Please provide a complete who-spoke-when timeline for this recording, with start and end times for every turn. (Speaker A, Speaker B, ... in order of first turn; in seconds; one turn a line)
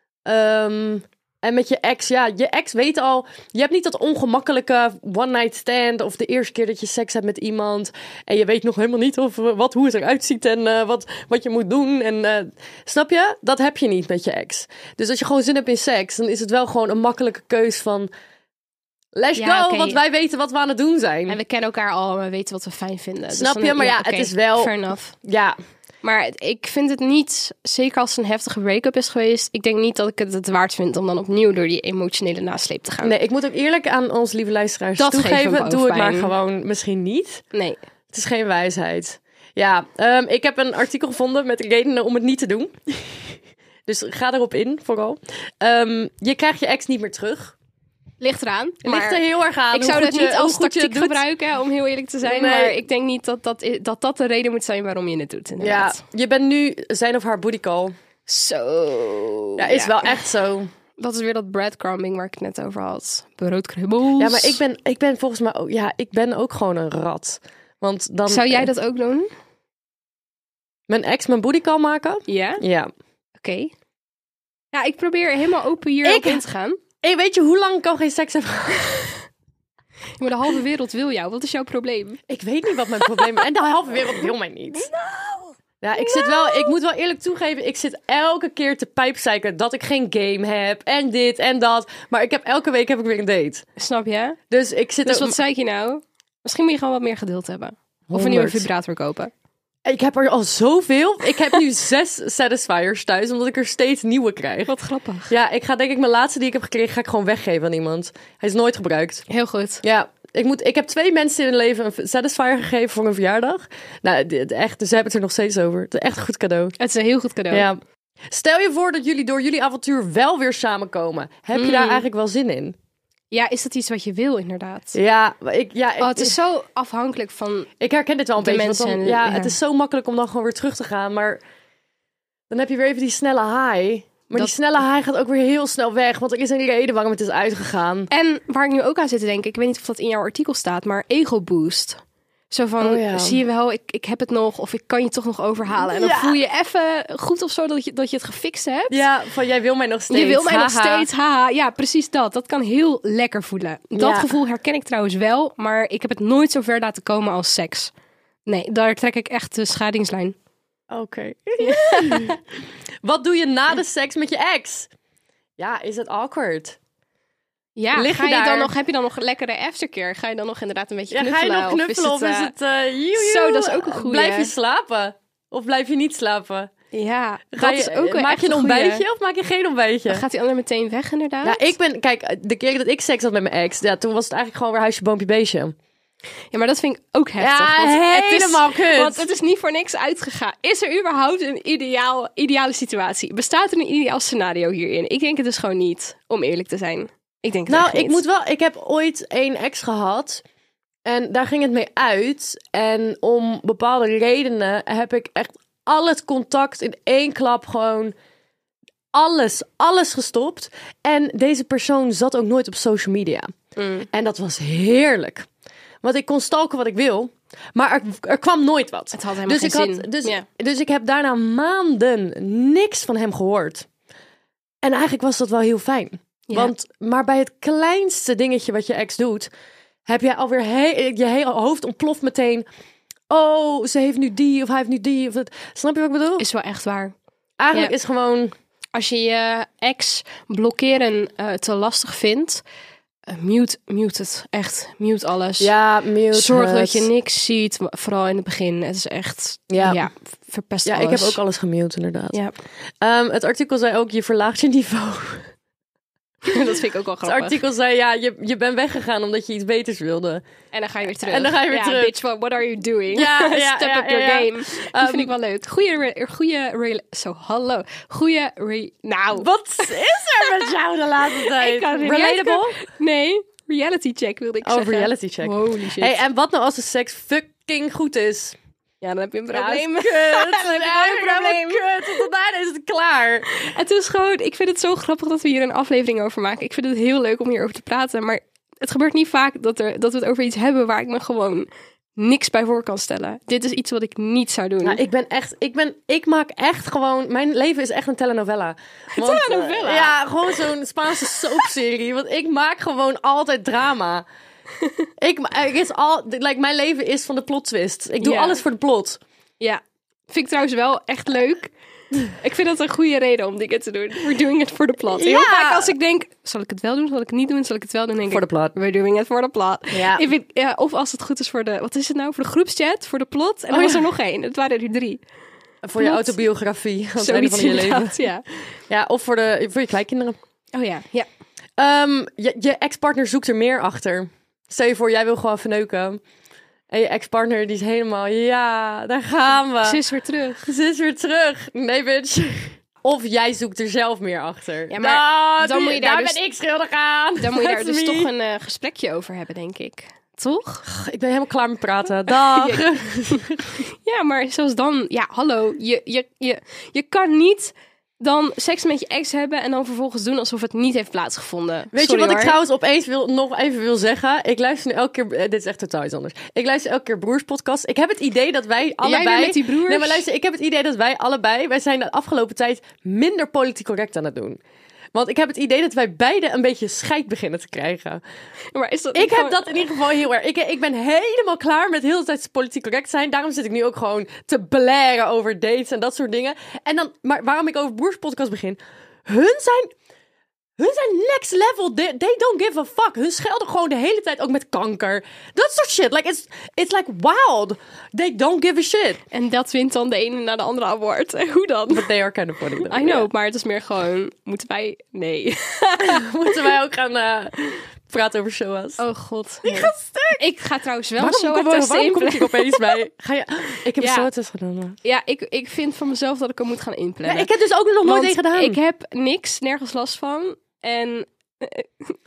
Speaker A: 0.3-18.1
Speaker A: 19.1-21.4
Speaker B: 19.4-20.0
Speaker B: 21.3-25.1
Speaker A: 23.3-25.6
Speaker B: 26.0-33.1
Speaker A: 33.0-37.4
Speaker B: 35.0-36.3
Speaker B: 37.5-37.8
Speaker A: 38.1-47.5
Speaker B: 48.2-56.0
Speaker A: 48.8-51.2
Speaker A: 52.2-52.8
Speaker A: 55.6-58.0
Speaker B: 58.3-60.2
Speaker A: 59.6-60.7
Speaker B: 61.0-64.6
Speaker A: 64.2-68.7
Speaker B: 68.3-69.3
Speaker A: 70.9-72.9
Speaker B: 72.3-72.7
Speaker B: 73.4-73.7
Speaker B: 74.7-76.8
Speaker A: 76.0-76.5
Speaker A: 77.0-79.2
Speaker B: 80.2-82.2
Speaker A: 82.3-84.9
Speaker B: 84.7-86.7
Speaker A: 85.8-93.7
Speaker B: 93.8-94.4
Speaker A: 94.5-95.4
Speaker B: 95.0-99.3
Speaker A: 98.1-98.7
Speaker A: 99.8-104.7
Speaker B: 104.7-105.3
Speaker A: 105.3-109.2
Speaker B: 109.3-109.8
Speaker A: 109.8-116.8
Speaker B: 116.8-117.7
Speaker A: 117.5-122.8
Speaker B: 121.5-122.1
Speaker B: 123.3-125.0
Speaker A: 124.9-126.4
Speaker B: 126.0-127.7
Speaker A: 127.8-131.4
Speaker B: 128.4-129.6
Speaker A: 132.5-138.1
Speaker B: 138.1-142.0
Speaker B: 142.5-149.1
Speaker A: 142.8-143.4
Speaker A: 145.8-146.4
Speaker A: 148.9-151.1
Speaker B: 150.1-157.9
Speaker A: 154.0-154.3
Speaker B: 158.5-160.3
Speaker A: 160.9-162.4
Speaker B: 161.6-162.3
Speaker A: 163.0-164.9
Speaker A: 165.6-166.8
Speaker B: 167.8-172.5
Speaker A: 167.9-168.7
Speaker A: 171.1-176.7
Speaker B: 173.1-174.5
Speaker B: 176.9-179.1
Speaker A: 177.5-180.2
Speaker B: 180.1-181.7
Speaker A: 181.4-185.8
Speaker B: 186.5-198.2
Speaker A: 187.4-189.2
Speaker A: 197.7-200.4
Speaker A: 201.1-208.2
Speaker A: 209.1-213.5
Speaker B: 213.8-214.1
Speaker A: 214.1-215.5
Speaker A: 216.0-223.9
Speaker B: 219.1-220.4
Speaker A: 224.8-229.5
Speaker B: 226.5-226.7
Speaker A: 230.1-232.7
Speaker A: 233.3-236.4
Speaker B: 236.4-237.1
Speaker A: 237.6-238.5
Speaker B: 238.9-242.6
Speaker B: 243.3-245.7
Speaker A: 245.6-247.1
Speaker B: 246.3-251.4
Speaker A: 249.7-250.0
Speaker A: 250.8-252.4
Speaker A: 253.0-255.5
Speaker B: 256.4-257.6
Speaker A: 257.2-260.4
Speaker B: 260.7-270.7
Speaker A: 261.2-262.2
Speaker A: 263.1-265.3
Speaker A: 269.3-272.8
Speaker B: 271.4-276.2
Speaker A: 274.6-278.6
Speaker B: 279.0-282.2
Speaker A: 279.5-283.5
Speaker B: 283.5-295.0
Speaker A: 294.8-304.3
Speaker B: 299.1-300.6
Speaker A: 305.2-309.2
Speaker B: 308.2-308.6
Speaker B: 309.6-311.7
Speaker B: 312.3-325.2
Speaker A: 315.1-315.9
Speaker A: 318.3-318.8
Speaker A: 319.9-320.3
Speaker A: 323.7-324.1
Speaker A: 325.8-328.2
Speaker B: 326.0-326.4
Speaker B: 327.2-328.4
Speaker A: 328.9-330.4
Speaker B: 330.7-331.3
Speaker A: 331.8-336.2
Speaker A: 336.9-340.0
Speaker B: 339.8-340.7
Speaker A: 340.6-348.3
Speaker B: 344.9-346.4
Speaker B: 347.4-350.9
Speaker A: 350.9-353.8
Speaker B: 352.3-362.6
Speaker A: 361.9-374.6
Speaker B: 369.0-370.2
Speaker A: 375.1-378.2
Speaker B: 378.7-379.7
Speaker A: 379.1-389.9
Speaker A: 390.8-399.2
Speaker B: 399.3-402.1
Speaker A: 401.9-403.3
Speaker B: 402.8-406.3
Speaker A: 406.0-409.0
Speaker B: 409.0-413.0
Speaker A: 409.6-410.4
Speaker A: 411.2-415.0
Speaker B: 414.0-414.3
Speaker B: 415.0-417.5
Speaker A: 417.2-418.8
Speaker B: 418.0-422.2